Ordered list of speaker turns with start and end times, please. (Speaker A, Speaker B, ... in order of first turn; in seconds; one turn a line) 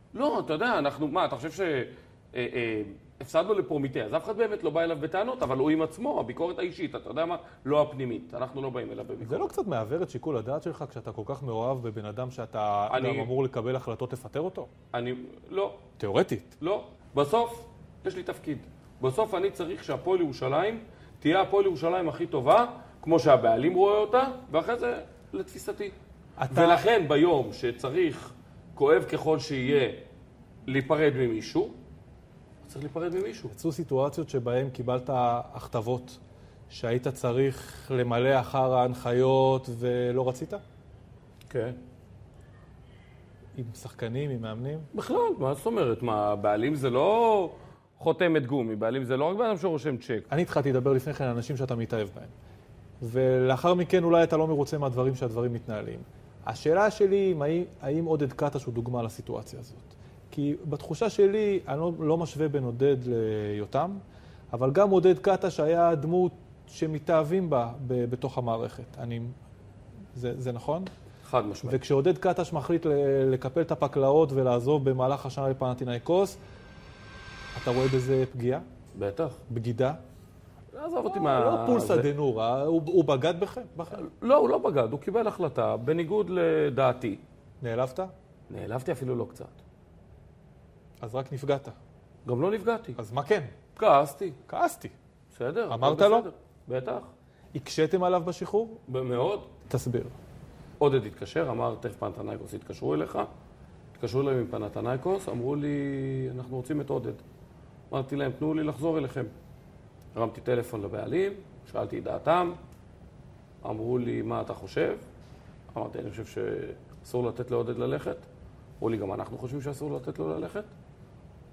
Speaker A: 0.1-9.5
Speaker B: 9.2-14.7
Speaker A: 12.9-13.3
Speaker A: 14.9-15.8
Speaker B: 16.0-16.6
Speaker A: 16.6-25.9
Speaker B: 26.4-26.8
Speaker A: 26.5-30.1
Speaker A: 30.6-31.8
Speaker A: 32.6-33.5
Speaker B: 33.5-36.2
Speaker B: 36.7-40.6
Speaker A: 41.5-41.8
Speaker B: 43.5-44.9
Speaker A: 44.9-50.3
Speaker B: 50.3-52.3
Speaker B: 53.0-64.0
Speaker B: 64.5-69.3
Speaker B: 70.1-70.9
Speaker A: 71.2-71.8
Speaker B: 71.7-76.4
Speaker B: 77.5-78.7
Speaker A: 78.9-79.4
Speaker B: 79.5-80.0
Speaker A: 80.7-82.1
Speaker B: 81.1-84.0
Speaker A: 84.0-87.2
Speaker B: 87.6-88.1
Speaker A: 88.5-89.6
Speaker B: 91.0-91.8
Speaker A: 92.2-93.0
Speaker B: 93.0-93.5
Speaker A: 93.8-94.4
Speaker B: 94.5-94.9
Speaker A: 95.3-97.1
Speaker B: 95.7-96.3
Speaker B: 97.5-98.8
Speaker A: 98.9-99.5
Speaker B: 99.7-100.1
Speaker A: 100.8-103.3
Speaker A: 103.9-107.2
Speaker A: 107.9-109.3
Speaker A: 110.1-112.6
Speaker A: 113.6-115.0
Speaker A: 115.7-118.3
Speaker A: 118.8-120.7